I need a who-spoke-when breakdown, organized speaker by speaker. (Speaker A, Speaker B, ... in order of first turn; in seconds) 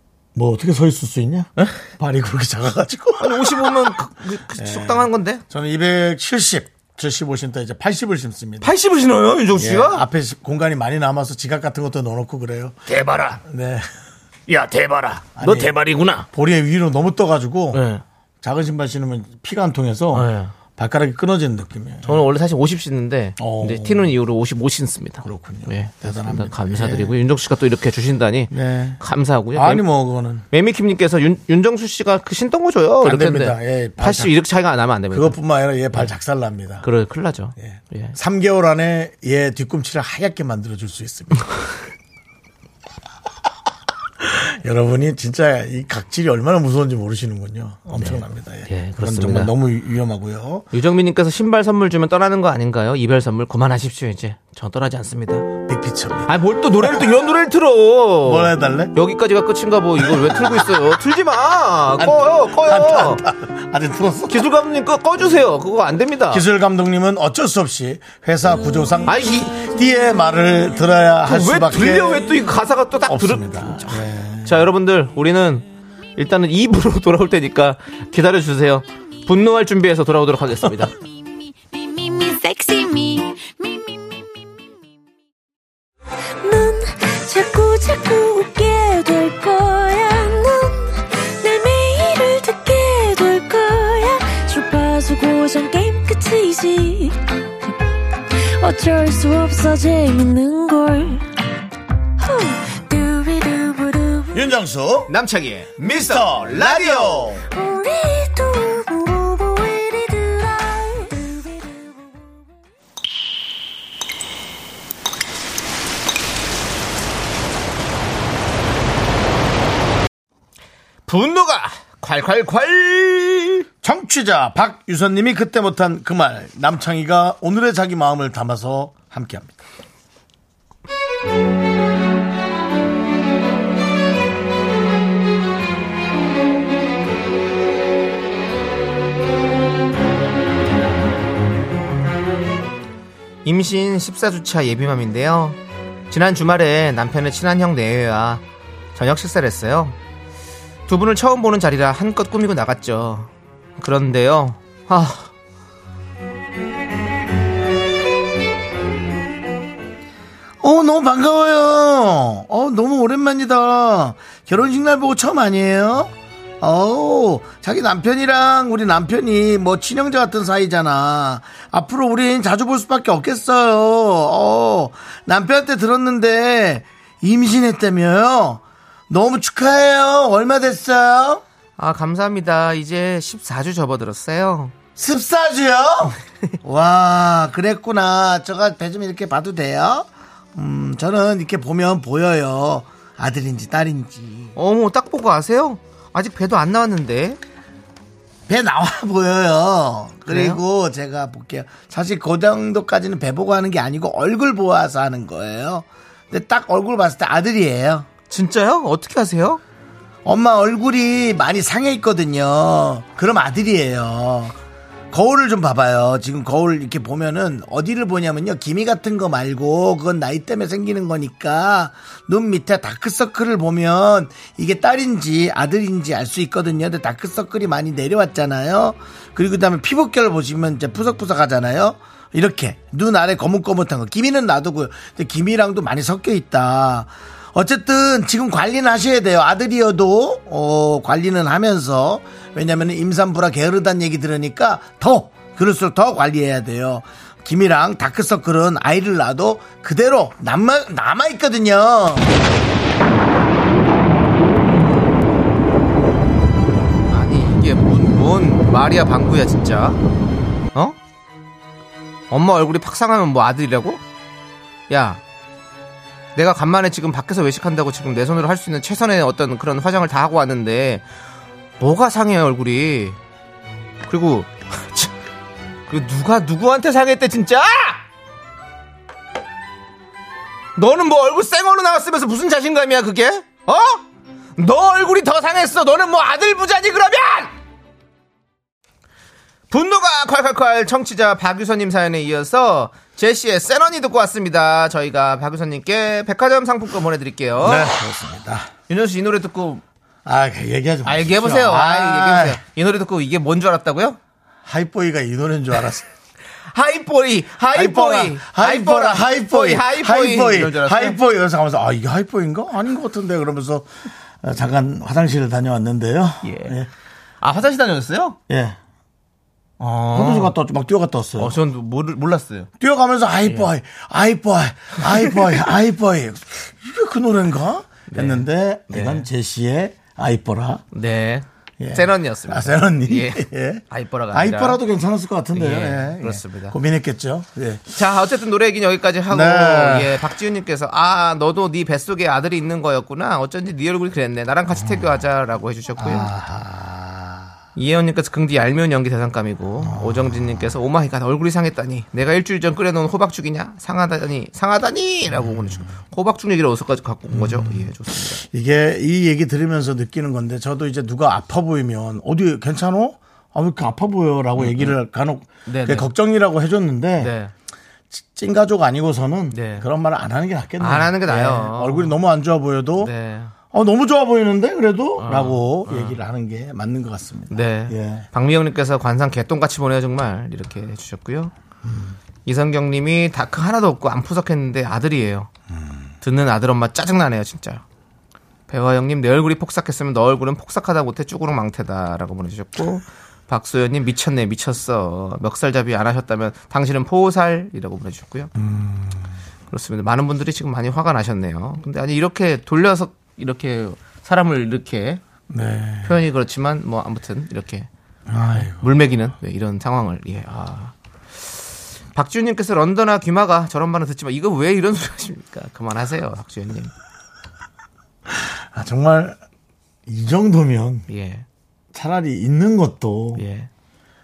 Speaker A: 0.3-4.0, 4.5-8.7, 9.5-12.8, 13.4-13.8, 15.3-17.8, 18.4-22.2, 23.4-24.1, 25.2-27.1, 28.5-29.0, 29.5-30.4, 33.0-34.3, 35.1-36.9, 37.6-41.5, 44.2-50.7, 55.6-57.0, 58.2-58.9, 60.0-60.8, 62.0-64.5, 66.3-72.4, 73.0-74.7, 104.3-105.1, 105.8-107.4, 123.8-129.5, 160.6-181.4, 184.9-194.5, 198.5-208.1, 210.2-214.5, 215.1-252.3, 297.6-298.7, 300.2-302.6, 304.6-306.1, 307.7-313.9, 314.4-316.9, 318.5-318.8, 320.1-321.6, 322.8-330.8, 331.8-337.9, 339.3-340.3, 344.8-345.1, 346.0-347.5, 349.8-350.7, 355.3-355.9, 357.3-367.3, 368.1-373.1, 373.7-378.3, 381.9-382.1, 398.6-399.3, 405.5-406.2, 408.3-408.9, 418.3-419.4, 420.1-421.1, 421.9-423.4
Speaker B: 3.2-5.4, 8.6-10.0, 12.9-13.4, 14.5-16.3, 17.7-18.0, 20.1-20.5, 22.0-29.9, 30.5-35.4, 36.8-38.1, 48.0-49.5, 50.7-55.5, 56.2-63.2, 64.3-66.4, 69.1-69.6, 71.2-80.9, 105.1-107.3, 121.1-123.7, 143.4-145.6, 146.1-148.4, 148.9-149.9, 150.9-155.3, 181.8-184.7, 194.6-197.4, 200.2-200.6, 208.3-209.6, 257.1-260.0, 262.3-264.0, 264.9-265.2, 266.4-271.0, 271.8-273.2, 274.1-275.1, 275.9-278.0, 280.8-284.0, 284.6-287.5, 289.7-297.9, 298.9-299.8, 301.0-304.2, 306.7-311.2, 316.4-316.8, 317.4-318.4, 319.8-320.5, 321.4-322.7, 328.1-329.2, 330.9-334.8, 335.5-336.8, 337.9-346.3, 347.8-358.4, 364.6-364.9, 365.7-366.1, 367.2-367.5, 369.5-369.9, 370.8-372.1, 373.0-373.5, 375.2-376.2, 377.5-381.5, 382.4-385.5, 386.2-387.8, 388.7-398.5, 399.7-405.2, 406.0-407.9, 408.5-410.9, 412.1-416.9, 421.1-421.4, 423.4-423.7
Speaker C: 81.9-83.8, 86.4-97.2, 98.3-101.3, 102.2-104.4, 107.5-111.9